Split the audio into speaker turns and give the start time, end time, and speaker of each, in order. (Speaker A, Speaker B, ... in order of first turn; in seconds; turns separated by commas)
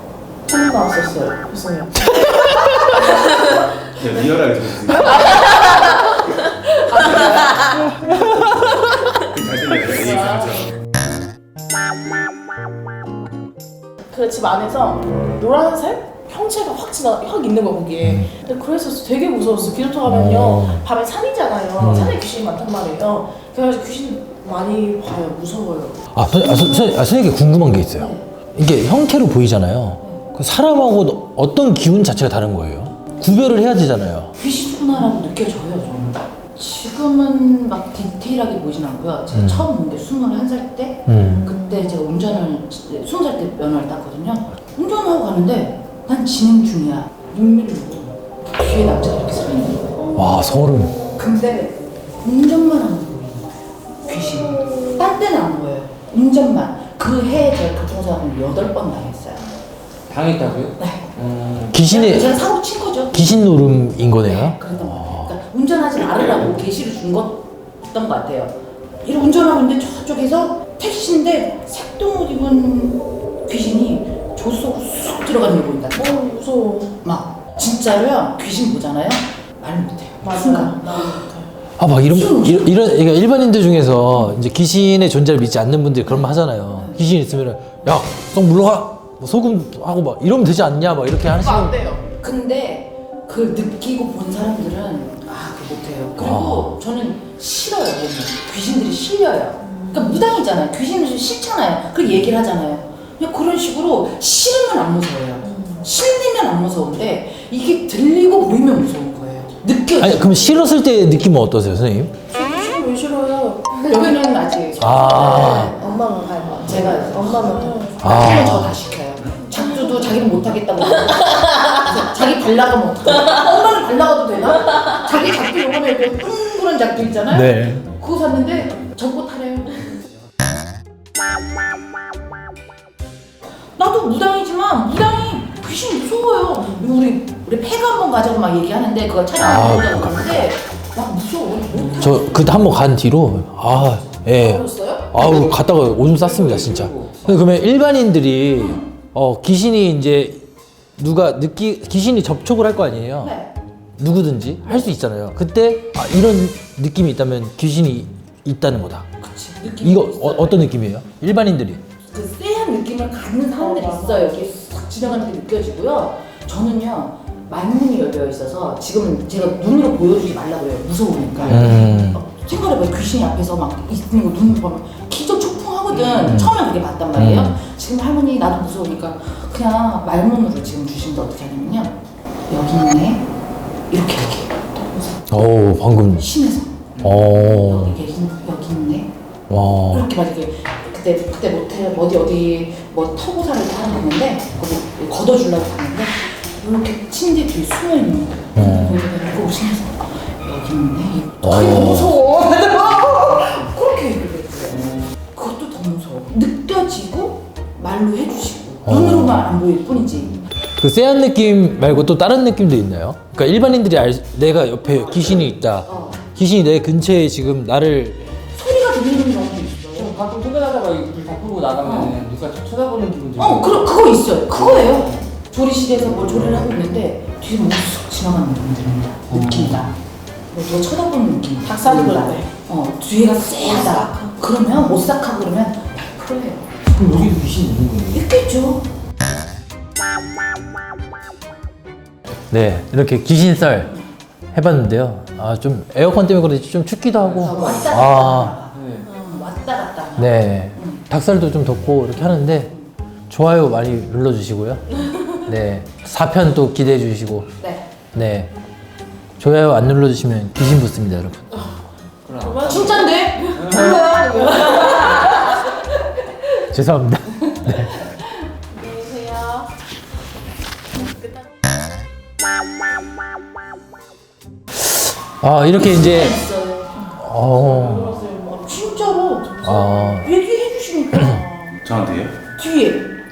Speaker A: 0.5-3.6, Speaker B: 3.9-5.5, Speaker A: 5.6-6.1, Speaker A: 6.9-7.5, Speaker B: 9.2-10.7, Speaker A: 14.1-26.9, Speaker C: 18.0-18.3, Speaker C: 20.0-20.8, Speaker C: 21.8-22.2, Speaker C: 26.1-34.3, Speaker D: 27.9-28.2, Speaker D: 34.4-50.1, Speaker C: 39.3-39.7, Speaker C: 41.1-41.6, Speaker C: 50.1-51.0, Speaker D: 51.1-53.5, Speaker D: 54.0-59.5, Speaker E: 60.1-61.8, Speaker D: 60.8-61.1, Speaker C: 61.7-62.4, Speaker D: 61.8-63.4, Speaker C: 63.1-65.3, Speaker D: 64.2-76.2, Speaker A: 75.9-77.0, Speaker D: 77.0-81.2, Speaker A: 80.2-81.5, Speaker C: 81.8-91.7, Speaker D: 82.0-82.8, Speaker D: 86.0-87.0, Speaker A: 91.3-92.0, Speaker D: 92.2-110.6, Speaker C: 96.2-96.8, Speaker A: 99.7-100.2, Speaker A: 105.4-105.8, Speaker C: 110.0-112.1, Speaker A: 112.3-113.9, Speaker D: 113.8-115.8, Speaker C: 114.8-115.7, Speaker A: 114.9-115.6, Speaker F: 115.7-117.6, Speaker D: 116.6-129.8, Speaker A: 116.6-118.0, Speaker C: 118.0-118.7, Speaker C: 127.3-127.8, Speaker D: 133.8-142.8, Speaker A: 136.6-136.9, Speaker C: 139.4-140.5, Speaker C: 142.0-150.4, Speaker A: 144.3-145.1, Speaker E: 146.1-147.4, Speaker D: 148.5-148.9, Speaker C: 151.0-153.3, Speaker D: 153.2-153.5, Speaker C: 154.0-159.1, Speaker D: 159.2-160.7, Speaker C: 159.8-161.8, Speaker D: 162.0-181.9, Speaker A: 163.6-164.5, Speaker C: 171.4-172.2, Speaker C: 176.2-176.6, Speaker C: 177.2-177.6, Speaker D: 182.5-183.2, Speaker D: 183.9-185.0, Speaker C: 185.3-186.3, Speaker D: 186.2-189.1, Speaker C: 187.0-188.0, Speaker C: 189.5-190.1, Speaker D: 189.9-210.4, Speaker C: 198.5-199.0, Speaker C: 201.4-202.2, Speaker C: 208.8-209.5, Speaker C: 210.8-218.3, Speaker D: 215.8-216.2, Speaker D: 218.5-220.2, Speaker E: 219.9-223.8, Speaker D: 221.8-222.2, Speaker D: 223.4-230.0, Speaker E: 229.3-229.8, Speaker D: 230.5-236.8, Speaker A: 231.6-232.5, Speaker A: 233.7-234.4, Speaker E: 237.2-238.1, Speaker D: 238.1-238.8, Speaker C: 242.5-243.9, Speaker C: 244.5-248.5, Speaker E: 247.2-247.7, Speaker D: 247.4-251.0, Speaker E: 248.7-249.1, Speaker C: 250.2-252.7, Speaker D: 252.3-252.9, Speaker C: 253.3-257.5, Speaker D: 257.6-257.9, Speaker C: 258.1-258.5, Speaker C: 259.4-261.6, Speaker E: 262.2-263.0, Speaker A: 262.4-263.0, Speaker D: 262.6-266.1, Speaker E: 263.6-264.0, Speaker C: 266.7-267.9, Speaker D: 267.5-268.3, Speaker A: 268.7-269.7, Speaker A: 271.1-271.4, Speaker C: 274.7-276.4, Speaker D: 275.8-277.1, Speaker C: 277.1-278.1, Speaker A: 277.5-280.1, Speaker D: 278.6-281.5, Speaker C: 279.6-280.3, Speaker A: 281.5-281.7, Speaker B: 281.8-282.4, Speaker D: 282.6-283.0